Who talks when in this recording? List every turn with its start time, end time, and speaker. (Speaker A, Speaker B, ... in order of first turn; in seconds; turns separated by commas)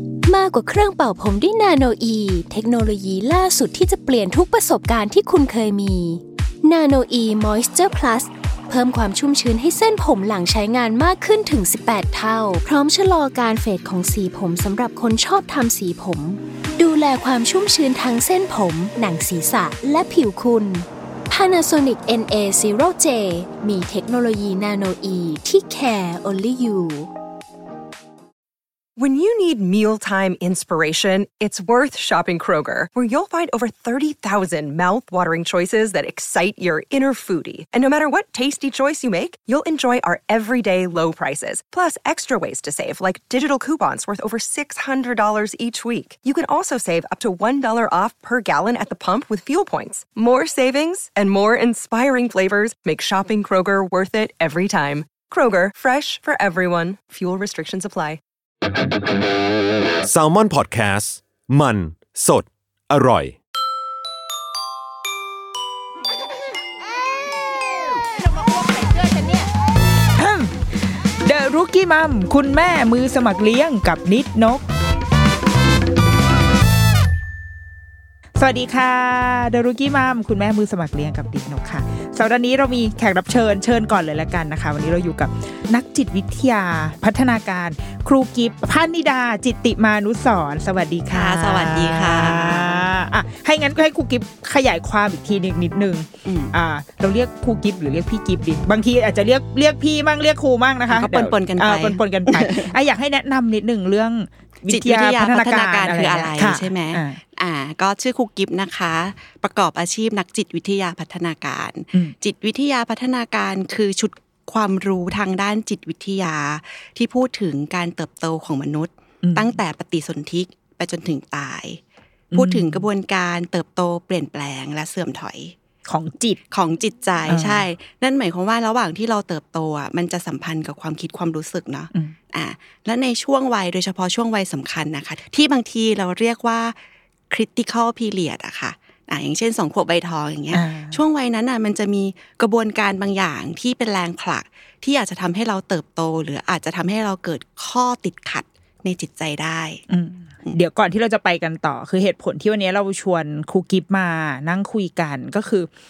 Speaker A: 0.2-27.1, Speaker B: 29.0-58.2, Speaker C: 60.0-63.4, Speaker D: 70.2-74.6, Speaker D: 78.4-107.2, Speaker E: 91.1-92.9, Speaker E: 96.2-96.5, Speaker E: 100.9-102.7, Speaker E: 104.7-121.8, Speaker D: 119.2-119.6, Speaker D: 122.3-122.9, Speaker E: 122.3-125.5, Speaker D: 125.9-126.4, Speaker E: 126.5-136.8, Speaker D: 127.3-127.7, Speaker E: 137.3-149.8, Speaker D: 140.5-141.0, Speaker D: 149.9-155.7